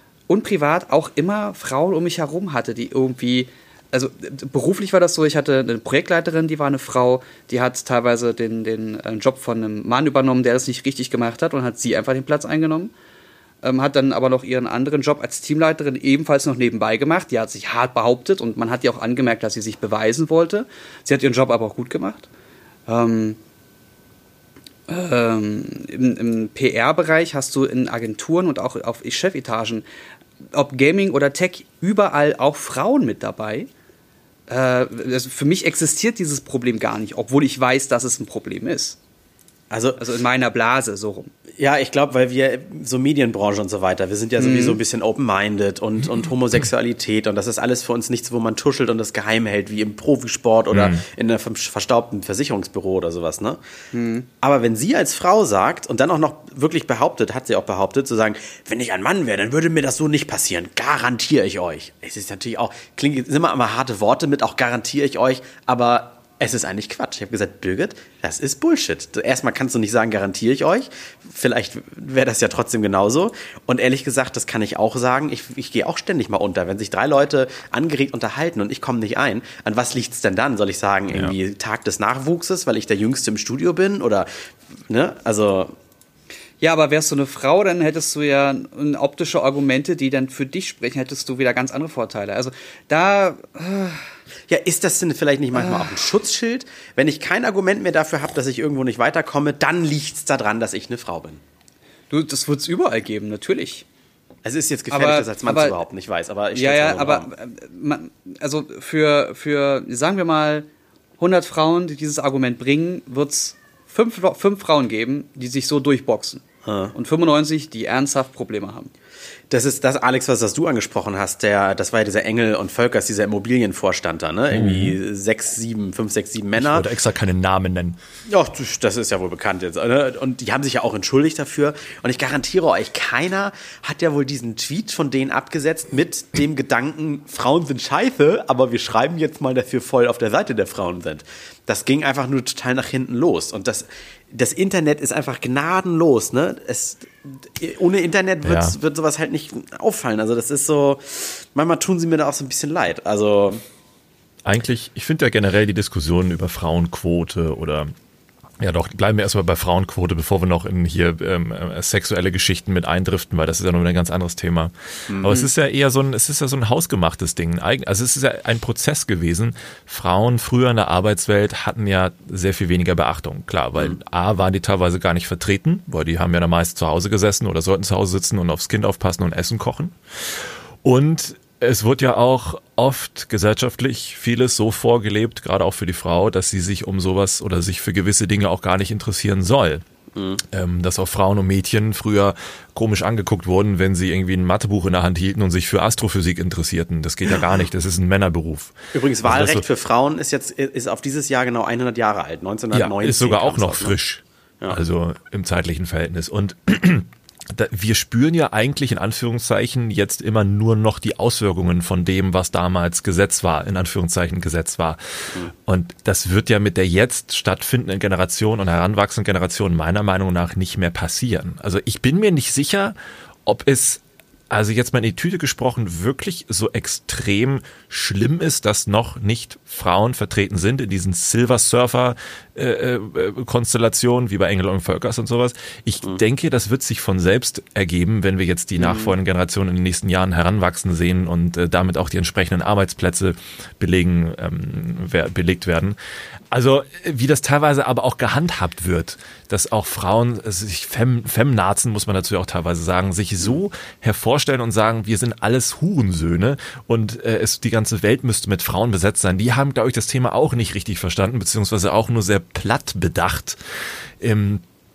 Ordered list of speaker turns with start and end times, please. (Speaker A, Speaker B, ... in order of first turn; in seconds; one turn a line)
Speaker A: 0.3-12.9
Speaker A: 13.6-22.3
Speaker A: 22.9-23.4
Speaker A: 24.9-29.9
Speaker A: 30.5-33.7
Speaker A: 34.5-39.0
Speaker B: 39.7-40.0
Speaker A: 40.0-41.3
Speaker B: 41.6-53.6
Speaker A: 44.4-44.8
Speaker C: 50.7-51.0
Speaker A: 53.9-54.3
Speaker B: 54.4-84.3
Speaker B: 84.9-85.7
Speaker A: 86.6-94.1
Speaker B: 94.5-101.4
Speaker A: 95.5-95.9
Speaker A: 102.1-103.8
Speaker B: 104.4-107.3
Speaker A: 104.9-105.8
Speaker A: 106.5-110.7
Speaker A: 111.2-116.4
Speaker B: 116.7-116.9
Speaker A: 116.9-118.9
Speaker B: 119.5-126.9
Speaker C: 124.5-125.0
Speaker C: 126.6-128.0
Speaker B: 128.3-153.6
Speaker C: 148.4-148.8
Speaker C: 154.4-157.9
Speaker C: 158.6-189.8
Speaker B: 165.1-165.5
Speaker B: 190.2-190.4
Speaker C: 190.5-198.7
Speaker B: 198.9-204.0
Speaker C: 199.2-199.6
Speaker C: 202.7-215.0
Speaker C: 215.7-222.9
Speaker C: 223.5-246.0
Speaker B: 238.8-239.1
Speaker C: 246.5-263.6
Speaker C: 264.2-264.6